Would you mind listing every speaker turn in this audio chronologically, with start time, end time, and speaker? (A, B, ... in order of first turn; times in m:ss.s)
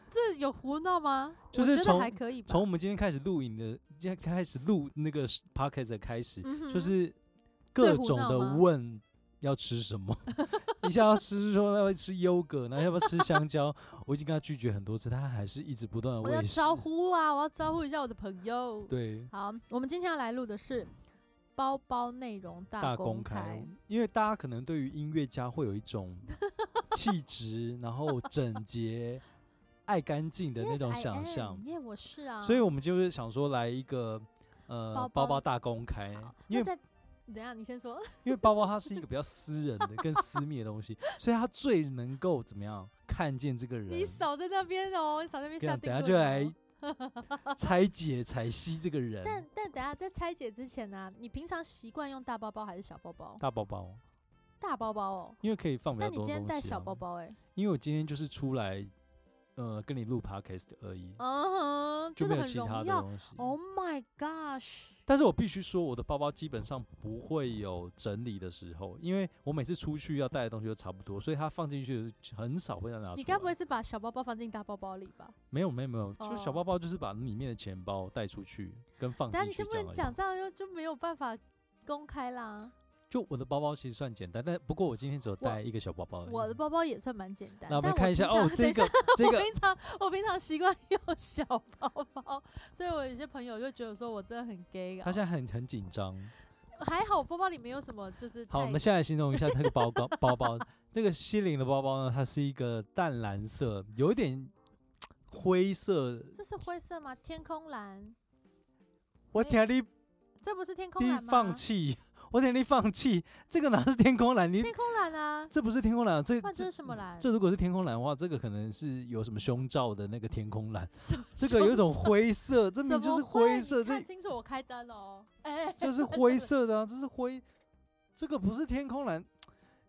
0:00.1-0:02.7 A
0:01.5-0:07.2 B
0:06.4-0:06.9 A
0:07.7-0:16.8 B
0:07.8-0:08.6 A
0:10.4-0:10.8 A
0:16.2-0:20.9 A
0:18.9-0:19.3 B
0:21.6-0:23.7 A
0:22.8-0:26.3 B
0:26.9-0:29.2 B
0:29.9-0:31.6 B
0:30.6-0:32.7 A
0:32.4-0:36.7 B
0:34.9-0:35.4 A
0:36.2-0:39.0 A
0:38.2-0:44.3 B
0:40.0-0:40.3 A
0:43.9-0:47.6 A
0:45.6-0:46.6 B
0:47.5-0:49.4 B
0:49.2-0:53.4 A
0:53.4-0:54.0 B
0:54.6-0:55.4 A
0:55.4-0:57.0 B
0:56.0-0:57.4 A
0:57.6-0:58.9 B
0:59.6-1:01.2 B
1:01.2-1:05.0 A
1:02.2-1:03.5 B
1:05.1-1:13.5 B
1:13.2-1:15.4 A
1:15.5-1:20.2 B
1:16.2-1:16.6 A
1:19.3-1:22.7 A
1:23.1-1:26.6 B
1:26.3-1:35.2 A
1:27.7-1:29.5 B
1:35.0-1:36.3 B
1:36.8-1:40.6 A
1:38.5-1:44.5 B
1:45.3-1:46.4 B
1:46.3-1:48.2 A
1:49.3-1:49.9 B
1:49.4-1:49.6 A
1:50.4-1:51.6 A
1:51.0-1:54.8 B
1:54.6-1:55.5 A
1:55.5-2:04.1 B
1:56.4-1:57.3 A
2:01.0-2:02.2 A
2:02.8-2:06.5 A
2:05.8-2:07.4 B
2:08.2-2:09.3 B